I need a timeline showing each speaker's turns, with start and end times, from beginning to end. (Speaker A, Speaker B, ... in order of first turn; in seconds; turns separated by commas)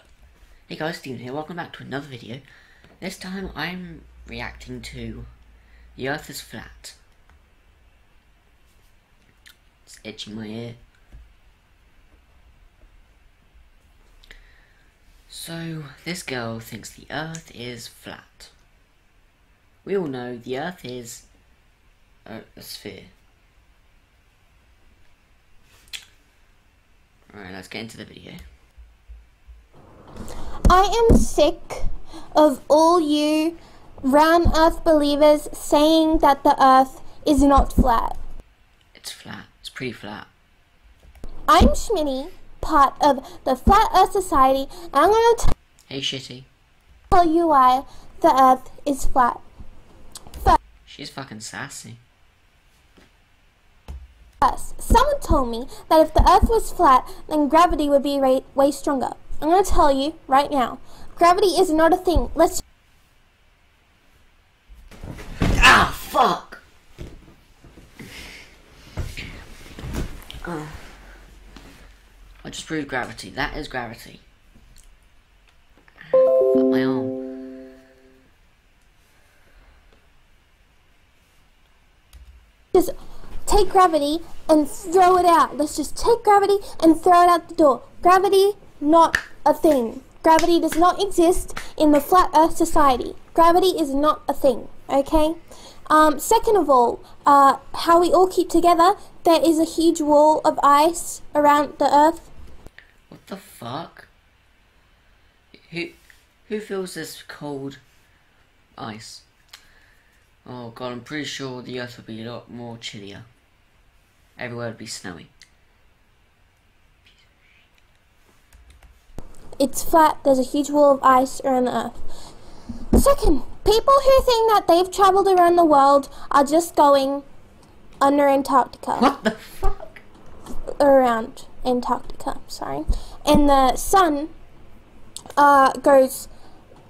Speaker A: 0.7-2.4, Speaker A: 3.0-5.3, Speaker A: 6.0-7.0, Speaker A: 9.9-10.8, Speaker A: 15.3-18.5, Speaker A: 19.8-21.2, Speaker A: 22.2-23.1, Speaker A: 27.3-28.4, Speaker B: 30.7-38.2, Speaker A: 38.9-40.3, Speaker B: 41.5-45.5, Speaker A: 45.9-46.5, Speaker B: 47.1-49.4, Speaker A: 50.9-52.0, Speaker B: 54.4-62.6, Speaker A: 65.5-66.6, Speaker A: 70.4-70.9, Speaker A: 72.4-74.2, Speaker A: 76.0-77.2, Speaker B: 83.5-102.3, Speaker A: 103.1-104.1, Speaker A: 105.7-106.0, Speaker A: 106.5-107.8, Speaker A: 108.8-109.2, Speaker A: 110.5-113.3, Speaker A: 114.4-115.3, Speaker B: 119.6-122.0, Speaker B: 122.9-127.2, Speaker B: 128.0-129.1, Speaker A: 128.9-130.0, Speaker B: 130.8-134.3, Speaker B: 135.4-136.3